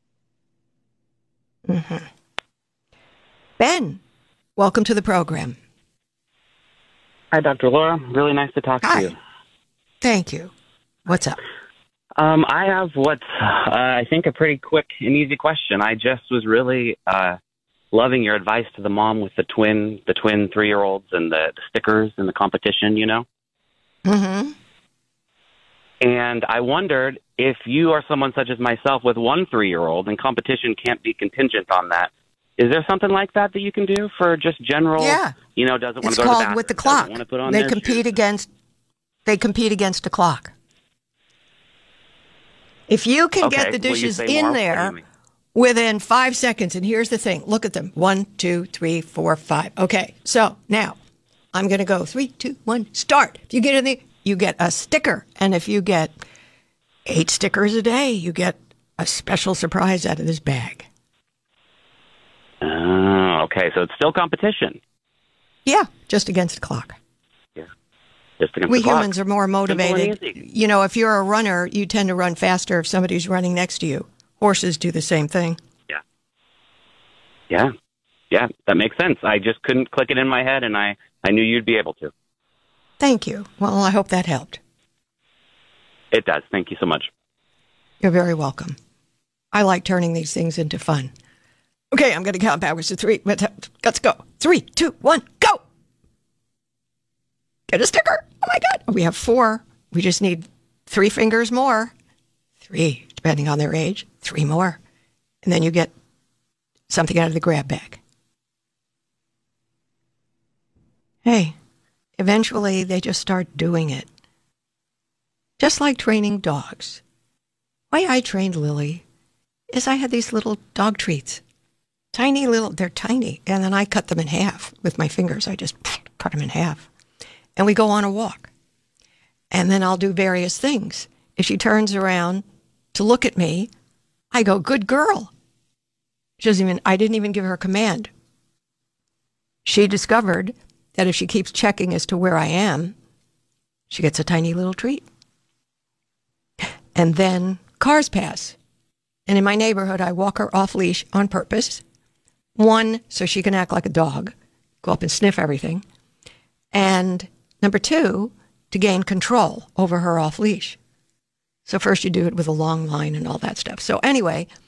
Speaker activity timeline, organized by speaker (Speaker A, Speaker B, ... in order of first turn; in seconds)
Speaker A: 1.7-2.0, 3.6-4.0, 4.6-5.6, 8.8-9.1, 10.0-10.5, 11.1-11.4, 24.1-24.5, 35.0-35.3, 36.0-38.5, 39.2-40.5, 42.9-44.9, 45.5-51.0, 51.5-56.1, 57.1-60.9, 65.7-67.0, 68.7-75.6, 83.0-84.6, 88.0-88.8, 89.5-91.1, 91.9-95.6, 97.7-101.9, 102.6-104.8, 105.4-105.9, 106.9-108.0, 111.2-111.5, 112.2-114.1, 115.6-117.0, 117.9-119.0, 119.7-121.4, 122.1-126.9, 127.5-128.5, 129.5-133.7, 134.3-135.3, 136.4-138.1, 139.6-142.9, 143.9-145.1, 146.9-148.6, 149.3-151.8, 152.6-155.8, 156.7-160.8, 161.6-164.5
Speaker B: 7.3-9.1, 12.2-17.4, 17.9-23.2, 26.0-38.1, 43.4-45.0, 62.6-64.8, 68.4-69.1, 69.7-70.3, 78.3-82.1, 86.1-87.1